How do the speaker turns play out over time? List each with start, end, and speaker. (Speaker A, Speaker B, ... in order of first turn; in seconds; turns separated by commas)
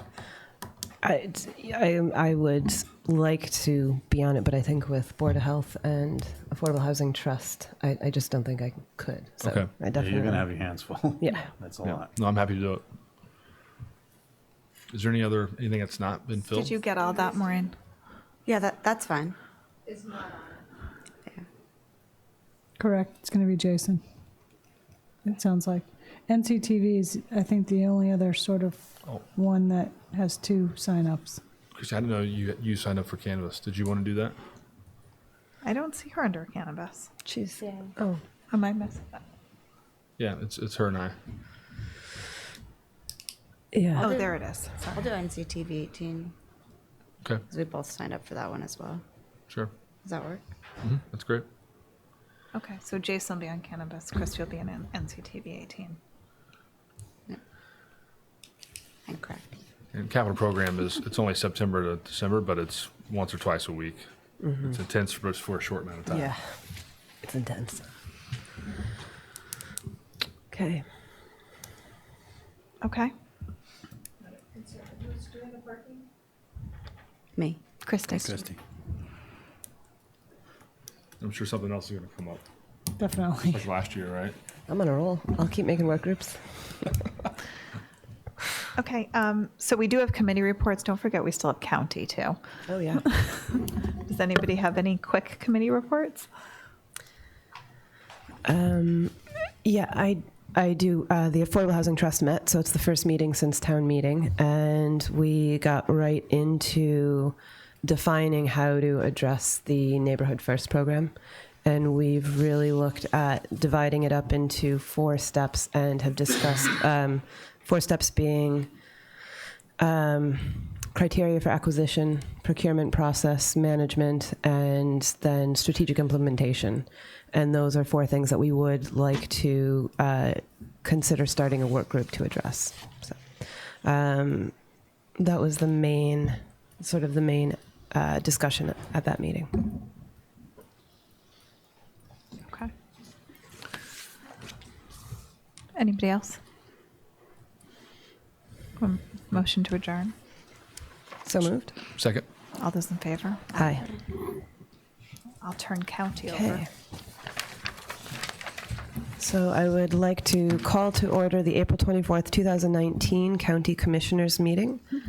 Speaker A: 1.0-10.5, Speaker B: 9.4-9.7, Speaker C: 9.9-12.1, Speaker A: 11.2-11.5, Speaker B: 11.8-12.8, Speaker B: 14.9-16.8, Speaker D: 16.5-17.8, Speaker E: 18.5-19.4, Speaker F: 22.8-24.0, Speaker F: 25.2-31.4, Speaker B: 31.8-34.4, Speaker D: 35.6-37.1, Speaker A: 37.3-38.2, Speaker E: 37.6-37.9, Speaker D: 38.5-39.2, Speaker B: 40.2-41.2, Speaker A: 43.7-44.1, Speaker D: 44.0-45.1, Speaker E: 44.0-44.4, Speaker E: 44.9-46.3, Speaker E: 47.5-49.0, Speaker E: 50.0-50.4, Speaker B: 50.8-51.5, Speaker D: 52.5-56.0, Speaker E: 59.1-59.5, Speaker B: 59.9-64.1, Speaker A: 64.4-64.7, Speaker B: 64.6-66.3, Speaker A: 66.1-66.6, Speaker A: 67.2-67.8, Speaker A: 70.5-70.8, Speaker D: 72.8-73.1, Speaker D: 77.8-78.5, Speaker C: 78.1-78.6, Speaker B: 81.2-82.4, Speaker F: 83.0-83.7, Speaker B: 83.5-84.3, Speaker A: 84.7-86.6, Speaker D: 88.8-92.4, Speaker A: 92.7-93.0, Speaker D: 93.1-96.3, Speaker A: 98.5-111.1, Speaker A: 111.6-118.7, Speaker A: 119.8-134.6, Speaker A: 135.2-139.7, Speaker D: 145.8-146.4, Speaker D: 148.8-150.1, Speaker A: 151.2-151.7, Speaker B: 152.0-152.2, Speaker D: 152.6-153.6, Speaker A: 153.5-153.9, Speaker D: 155.4-156.7, Speaker A: 156.3-156.7, Speaker A: 159.2-164.8